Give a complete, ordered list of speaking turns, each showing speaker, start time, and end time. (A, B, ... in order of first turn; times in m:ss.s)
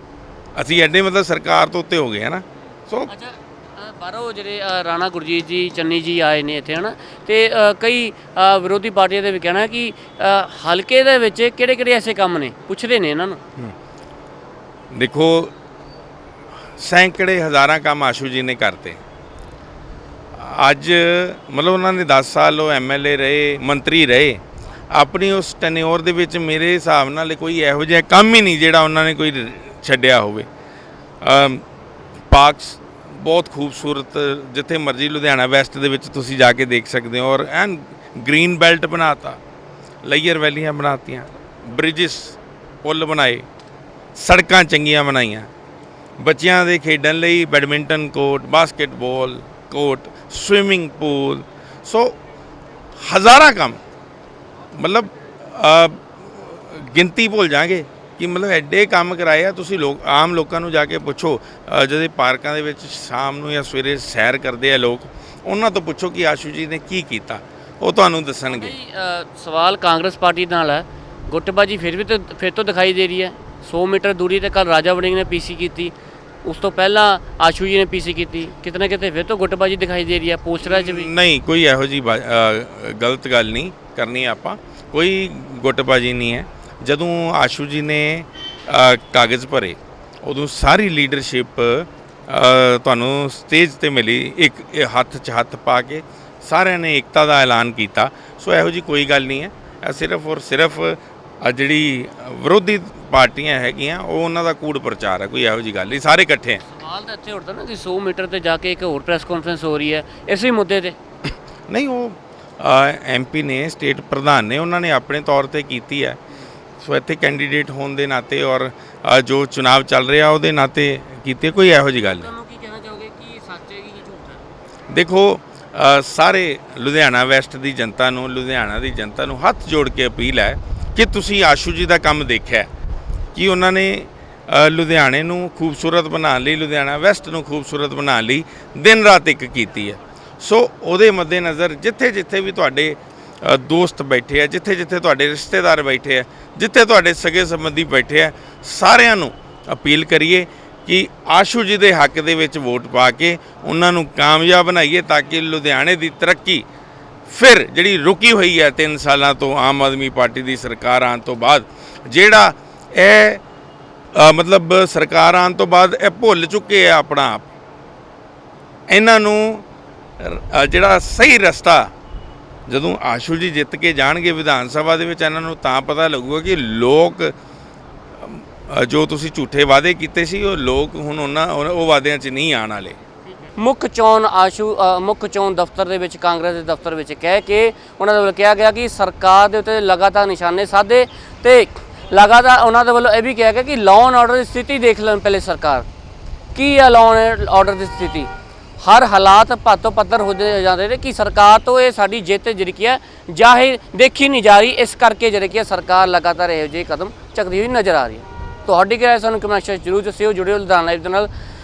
0:00.6-0:03.1 A
0:03.1-0:13.4 B
0:14.9-0:15.5 A
0:16.8-0:19.0 A
0:20.4-0:24.4 A
0:24.9-0:30.5 A
0:31.2-0:31.6 A
0:32.3-0:39.4 A
0:40.0-0:43.5 A
0:44.2-0:45.5 A
0:46.2-0:52.2 A
0:53.0-0:53.8 A
0:54.7-1:08.7 A
1:08.5-1:15.9 B
1:16.4-1:21.1 B
1:20.6-1:46.6 A
1:46.6-1:51.0 B
1:51.7-1:56.2 A
1:56.8-2:02.3 A
2:01.9-2:04.5 B
2:04.9-2:12.7 A
2:13.4-2:36.6 A
2:37.3-2:43.4 A
2:44.2-2:47.4 A
2:48.9-2:49.6 A
2:50.2-2:51.9 A
2:52.7-2:57.3 A
2:58.2-3:03.0 A
3:03.6-3:15.9 B
3:16.6-3:18.3 B
3:18.8-3:31.3 B